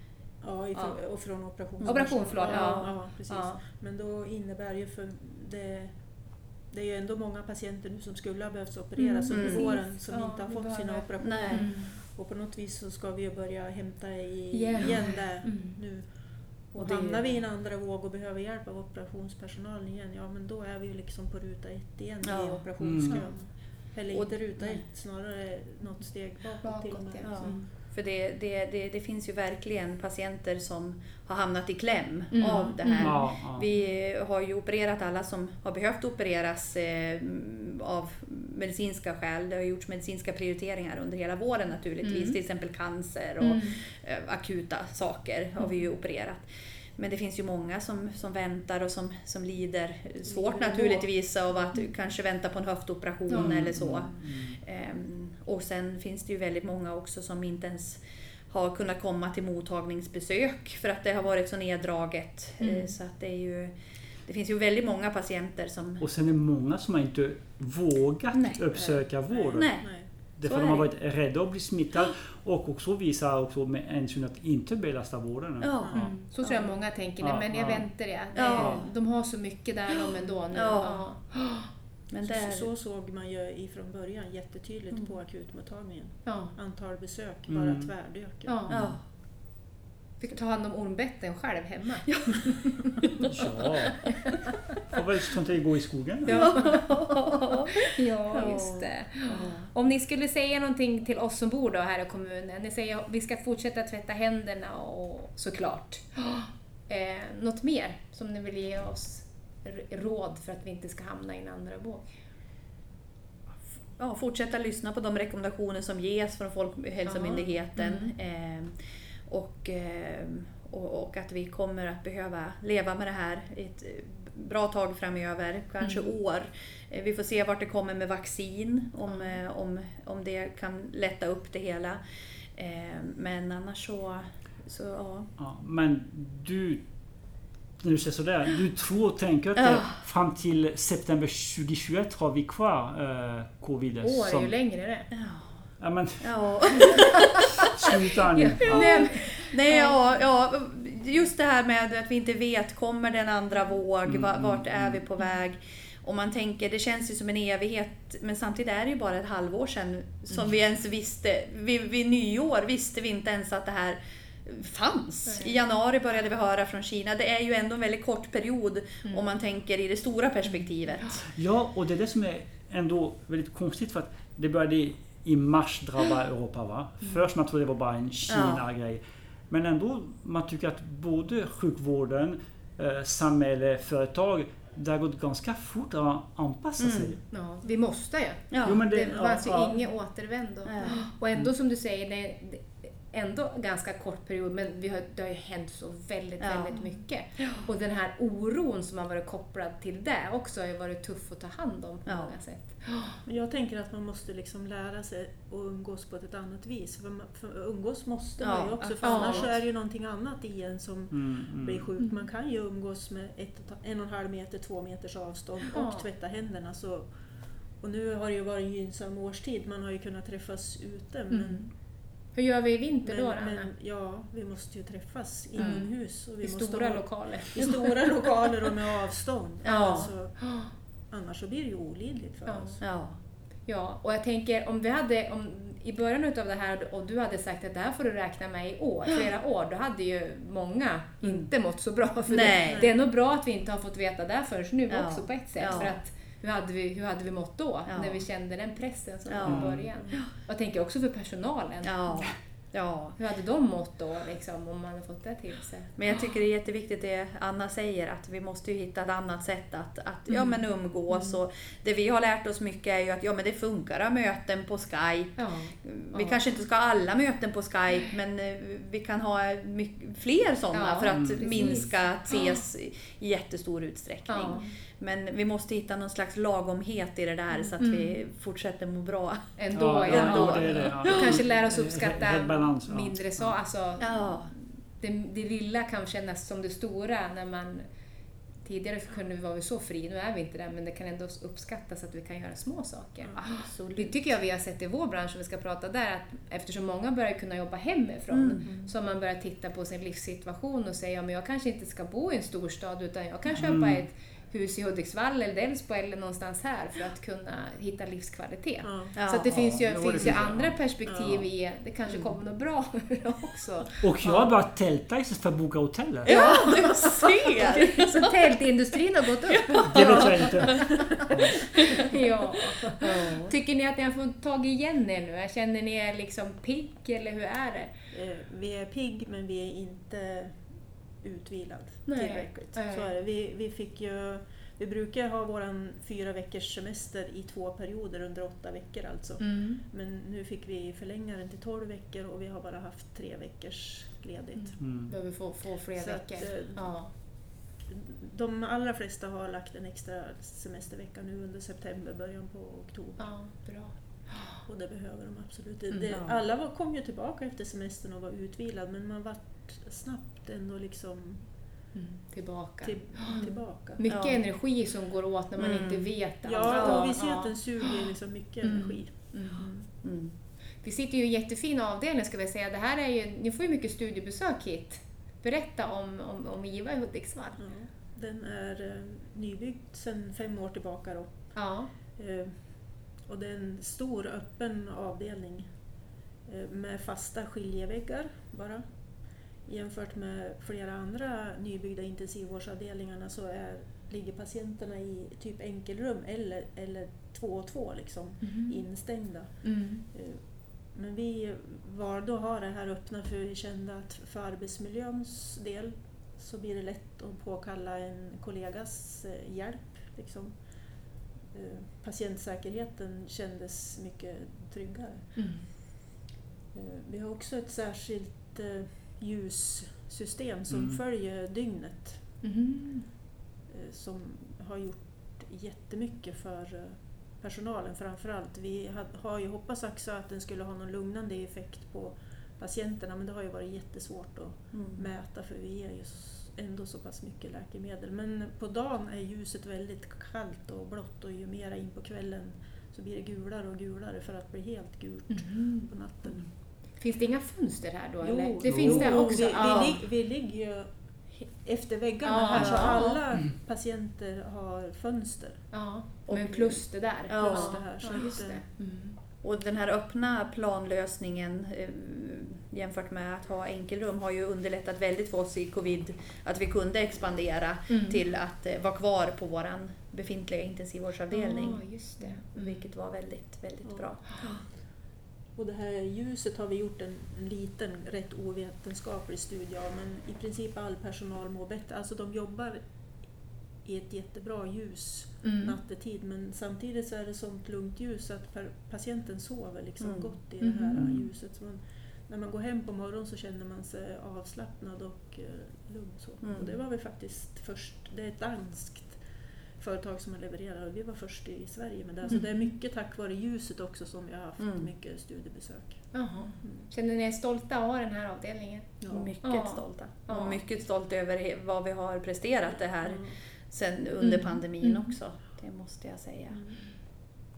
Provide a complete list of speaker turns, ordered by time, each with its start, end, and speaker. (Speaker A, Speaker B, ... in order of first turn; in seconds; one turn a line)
Speaker A: 0.4-27.6
Speaker B: 0.7-3.6
Speaker C: 1.8-3.0
Speaker B: 9.0-12.0
Speaker C: 9.3-9.7
Speaker C: 11.2-11.8
Speaker B: 14.5-15.8
Speaker C: 16.8-17.4
Speaker C: 22.2-23.4
Speaker D: 22.8-23.3
Speaker C: 24.1-24.8
Speaker B: 26.6-27.7
Speaker C: 27.2-46.5
Speaker B: 32.3-33.8
Speaker D: 33.0-33.7
Speaker B: 42.0-42.4
Speaker B: 43.4-43.8
Speaker C: 47.0-66.1
Speaker A: 50.2-51.6
Speaker B: 53.3-53.7
Speaker D: 53.3-54.6
Speaker B: 62.6-63.0
Speaker D: 66.0-76.2
Speaker C: 68.3-68.6
Speaker A: 68.7-70.1
Speaker C: 69.5-70.9
Speaker C: 75.6-76.6
Speaker A: 75.8-76.1
Speaker B: 75.9-81.7
Speaker D: 77.2-78.8
Speaker C: 78.3-78.9
Speaker C: 80.5-81.3
Speaker C: 82.1-82.7
Speaker A: 82.2-88.6
Speaker B: 86.2-86.5
Speaker D: 87.5-88.0
Speaker B: 88.5-88.8
Speaker D: 88.7-89.0
Speaker C: 88.7-89.0
Speaker B: 90.2-92.5
Speaker C: 92.2-92.7
Speaker D: 93.2-94.1
Speaker D: 94.9-96.8
Speaker C: 96.3-99.7
Speaker B: 96.3-112.1
Speaker C: 114.0-118.8
Speaker B: 117.1-118.1
Speaker C: 119.3-132.0
Speaker B: 125.8-126.1
Speaker B: 129.1-129.4
Speaker C: 132.6-135.3
Speaker D: 135.4-144.6
Speaker C: 139.6-140.0
Speaker B: 144.0-145.1
Speaker C: 145.1-145.7
Speaker D: 145.8-149.3
Speaker C: 146.2-147.5
Speaker B: 148.4-150.0
Speaker C: 148.6-171.3
Speaker D: 154.1-155.0
Speaker B: 165.3-165.6
Speaker D: 171.1-187.2
Speaker C: 178.3-178.6
Speaker C: 186.8-187.2
Speaker B: 187.3-203.2
Speaker C: 188.5-188.8
Speaker D: 188.6-189.9
Speaker C: 190.7-191.1
Speaker C: 196.4-197.7
Speaker C: 202.1-202.4
Speaker A: 203.2-221.7
Speaker C: 208.4-209.5
Speaker B: 209.0-209.5
Speaker D: 211.1-211.9
Speaker B: 215.7-216.1
Speaker B: 221.3-223.7
Speaker A: 223.0-232.8
Speaker B: 225.6-228.1
Speaker C: 225.6-225.8
Speaker B: 229.6-230.7
Speaker C: 229.7-230.1
Speaker B: 232.5-252.3
Speaker C: 232.8-233.2
Speaker C: 241.2-241.5
Speaker C: 242.3-242.9
Speaker A: 242.7-243.0
Speaker C: 244.9-246.0
Speaker C: 247.9-248.2
Speaker C: 249.3-250.3
Speaker D: 249.4-249.9
Speaker A: 250.0-250.2
Speaker C: 251.8-253.2
Speaker B: 253.2-255.9
Speaker C: 256.0-281.1
Speaker B: 260.3-261.4
Speaker B: 265.4-266.4
Speaker B: 270.7-272.6
Speaker D: 271.1-271.8
Speaker B: 274.3-274.6
Speaker B: 277.8-278.2
Speaker B: 279.6-287.9
Speaker D: 279.7-283.6
Speaker C: 284.0-284.5
Speaker B: 288.6-314.1
Speaker C: 293.3-294.3
Speaker C: 298.3-298.6
Speaker A: 298.6-298.9
Speaker D: 303.6-304.1
Speaker A: 308.8-309.2
Speaker C: 309.2-309.6
Speaker D: 309.4-311.4
Speaker A: 310.1-310.4
Speaker A: 311.1-311.4
Speaker C: 312.1-312.3
Speaker D: 314.0-316.3
Speaker C: 316.2-318.3
Speaker B: 316.3-320.6
Speaker C: 319.5-321.0
Speaker D: 319.9-321.8
Speaker B: 322.0-327.9
Speaker C: 323.0-323.5
Speaker A: 328.1-345.1
Speaker B: 332.1-333.1
Speaker B: 339.4-339.8
Speaker B: 344.5-347.1
Speaker D: 344.8-345.1
Speaker A: 345.9-353.3
Speaker B: 353.2-354.6
Speaker A: 354.6-361.5
Speaker B: 355.9-356.2
Speaker C: 356.1-356.4
Speaker B: 361.9-368.0
Speaker A: 362.8-364.0
Speaker C: 363.3-364.5
Speaker C: 365.6-367.3
Speaker A: 366.4-369.9
Speaker B: 368.6-369.7
Speaker C: 370.0-370.3
Speaker B: 370.8-377.6
Speaker A: 377.6-415.6
Speaker B: 381.6-381.9
Speaker B: 398.4-398.8
Speaker B: 399.6-400.0
Speaker B: 415.4-415.7
Speaker A: 416.7-422.3
Speaker D: 420.7-421.0
Speaker B: 422.4-423.1
Speaker A: 423.7-446.5
Speaker C: 434.7-435.1
Speaker B: 445.3-445.9
Speaker B: 446.6-450.1
Speaker A: 448.2-455.8
Speaker D: 448.6-449.3
Speaker B: 452.2-453.3
Speaker B: 455.7-459.2
Speaker C: 456.3-458.4
Speaker A: 457.2-458.7
Speaker C: 459.4-474.6
Speaker B: 467.9-468.2
Speaker B: 471.3-472.9
Speaker A: 473.8-474.8
Speaker A: 475.5-506.9
Speaker B: 485.4-485.8
Speaker C: 490.0-490.3
Speaker B: 490.6-491.1
Speaker D: 490.9-491.3
Speaker C: 496.4-496.8
Speaker B: 502.3-502.7
Speaker C: 504.6-504.9
Speaker B: 506.1-510.6
Speaker A: 509.0-509.3
Speaker C: 509.1-516.8
Speaker A: 513.0-513.4
Speaker B: 514.2-515.1
Speaker A: 516.5-516.8